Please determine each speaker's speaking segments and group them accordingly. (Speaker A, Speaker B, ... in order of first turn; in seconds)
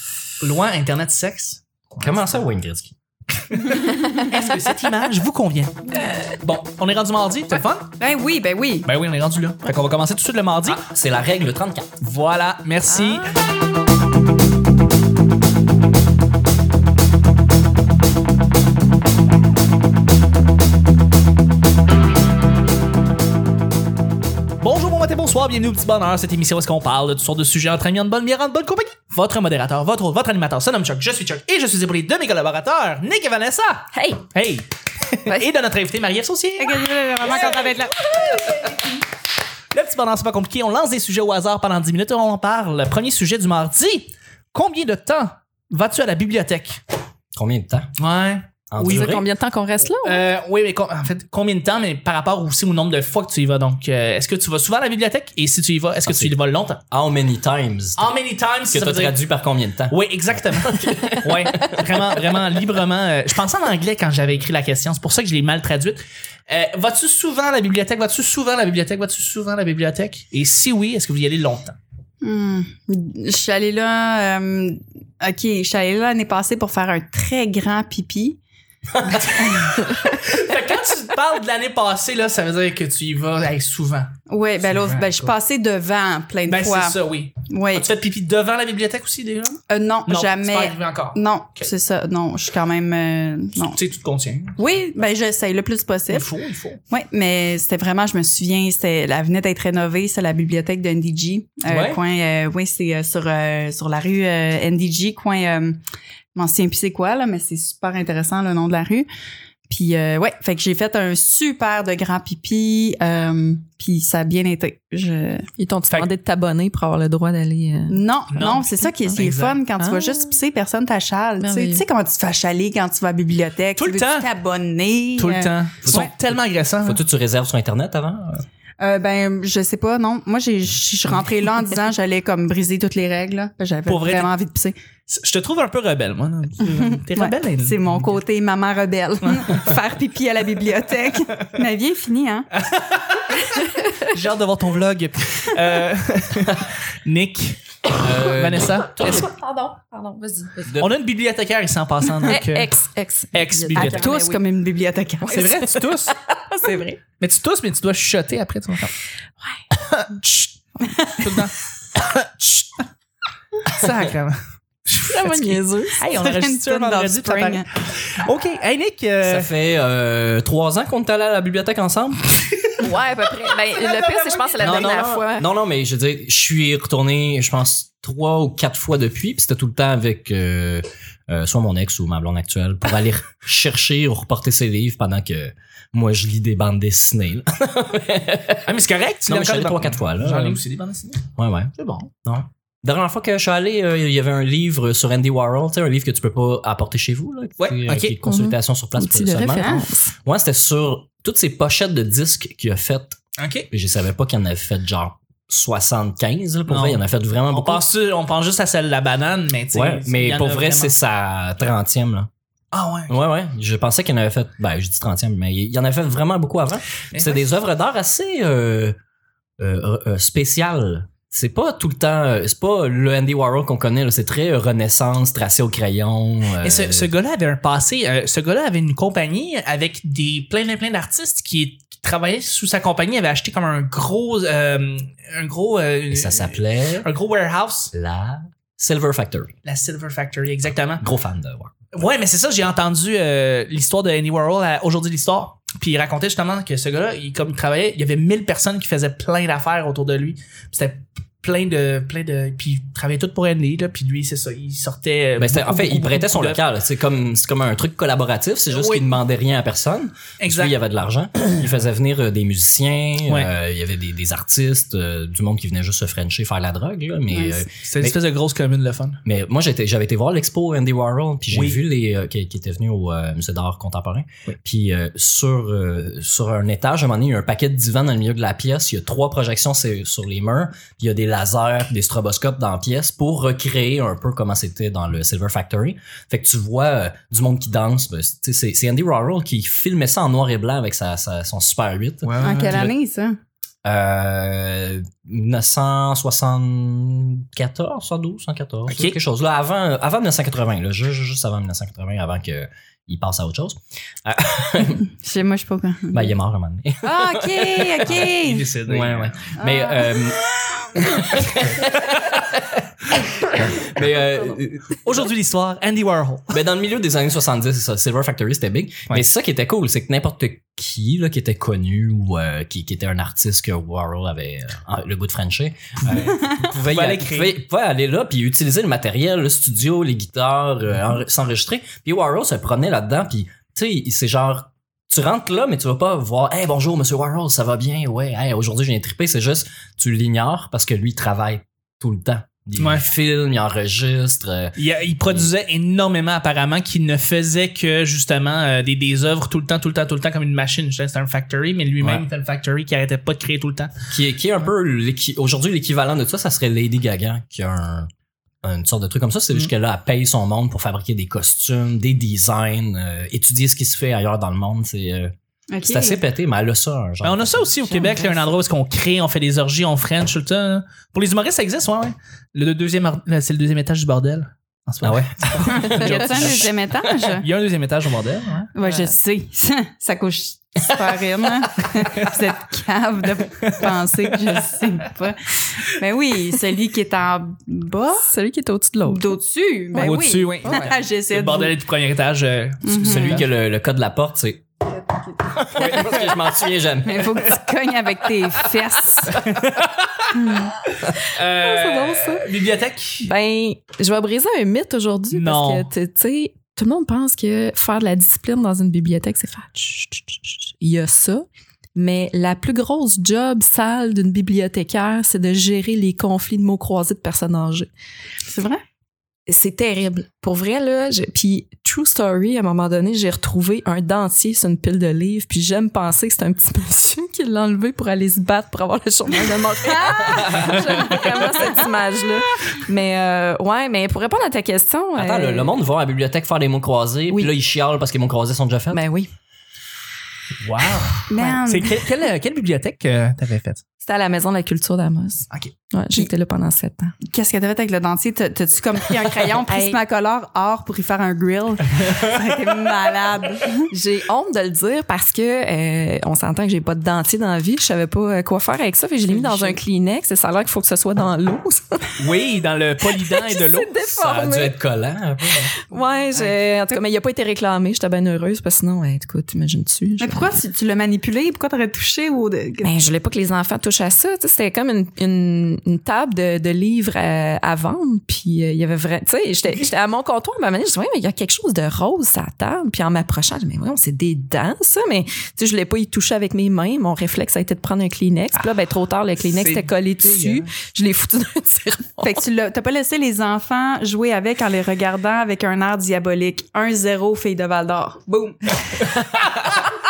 Speaker A: 0.4-2.4, 3.5-5.8, 6.4-7.9, 8.8-10.8, 12.0-13.3, 24.6-38.8, 39.7-46.8, 48.0-49.1, 50.0-56.8, 58.0-59.2, 59.9-71.8, 79.0-84.1, 84.7-85.3, 86.5-91.7, 93.6-94.6, 96.1-96.8, 101.7-102.0, 118.3-119.6, 123.8-124.3, 125.2-127.0, 133.9-134.3, 135.1-138.2, 139.3-139.5, 142.6-143.4, 144.1-148.9, 150.8-152.7, 153.3-154.1, 155.3-156.1, 157.2-158.9, 159.8-162.8, 163.7-169.5, 173.7-175.0, 188.6-191.2, 191.8-192.1, 197.6-198.2, 203.4-203.7, 206.7-210.9, 212.7-213.2, 217.1-217.4, 226.6-237.9, 239.7-241.1, 241.9-256.6, 258.7-259.2, 260.4-260.8, 263.3-263.5, 267.8-269.2, 271.5-271.8, 292.2-292.8, 298.9-299.2, 308.2-309.4, 315.1-316.6, 326.1-327.6, 342.8-343.1, 344.8-353.9, 367.2-378.7, 383.6-384.7, 389.9-393.5, 395.7-396.4, 399.3-400.4, 401.3-403.3, 405.3-405.9, 440.6-443.8, 459.3-459.8, 462.2-463.9, 489.4-490.7
Speaker B: 2.0-3.0, 10.7-11.9, 47.4-47.9, 48.7-49.3, 56.1-56.3, 56.9-58.1, 58.7-62.1, 125.8-126.3, 126.8-128.4, 148.0-149.3, 150.7-150.9, 169.2-172.3, 174.6-188.7, 189.3-190.6, 191.4-191.7, 192.2-203.2, 203.7-207.8, 209.7-212.3, 213.1-219.0, 219.6-227.1, 236.1-237.1, 237.9-239.5, 241.0-241.7, 255.4-268.2, 269.2-292.9, 293.9-305.0, 306.1-312.8, 313.5-315.3, 316.5-345.5, 354.1-358.1, 358.6-365.3, 365.9-367.7, 375.0-376.7, 393.0-394.6, 395.7-397.5, 430.3-430.8, 435.2-439.0, 464.2-465.7
Speaker C: 3.8-4.0, 8.0-8.9, 36.6-38.0, 72.2-78.4, 79.2-79.9, 84.3-87.0, 87.5-87.9, 89.7-93.8, 94.6-96.3, 96.9-105.8, 106.4-109.1, 109.7-115.5, 117.9-126.1, 128.8-134.8, 136.7-142.5, 153.8-155.5, 160.8-161.3, 166.0-167.7, 199.5-199.8, 267.3-267.6, 292.4-293.4, 305.2-306.4, 307.0-308.7, 309.6-310.9, 365.7-366.2, 367.9-368.2, 375.7-377.5, 378.7-388.3, 389.1-391.8, 392.8-393.4, 394.9-395.7, 397.1-399.5, 400.4-400.7, 418.5-418.8, 441.3-442.0, 447.3-453.9, 470.2-473.0, 492.2-498.8
Speaker D: 12.9-13.3, 33.9-34.2, 48.8-50.2, 115.6-119.2, 119.8-120.3, 121.4-121.8, 149.0-150.7, 152.3-154.4, 155.2-157.0, 165.1-166.1, 172.8-175.5, 198.2-200.1, 378.8-379.1, 388.2-389.4, 401.3-402.5, 403.2-417.9, 419.5-435.7, 438.9-439.3, 444.0-447.1, 449.6-450.0, 453.9-462.1, 463.2-464.8, 465.8-470.6, 472.8-492.4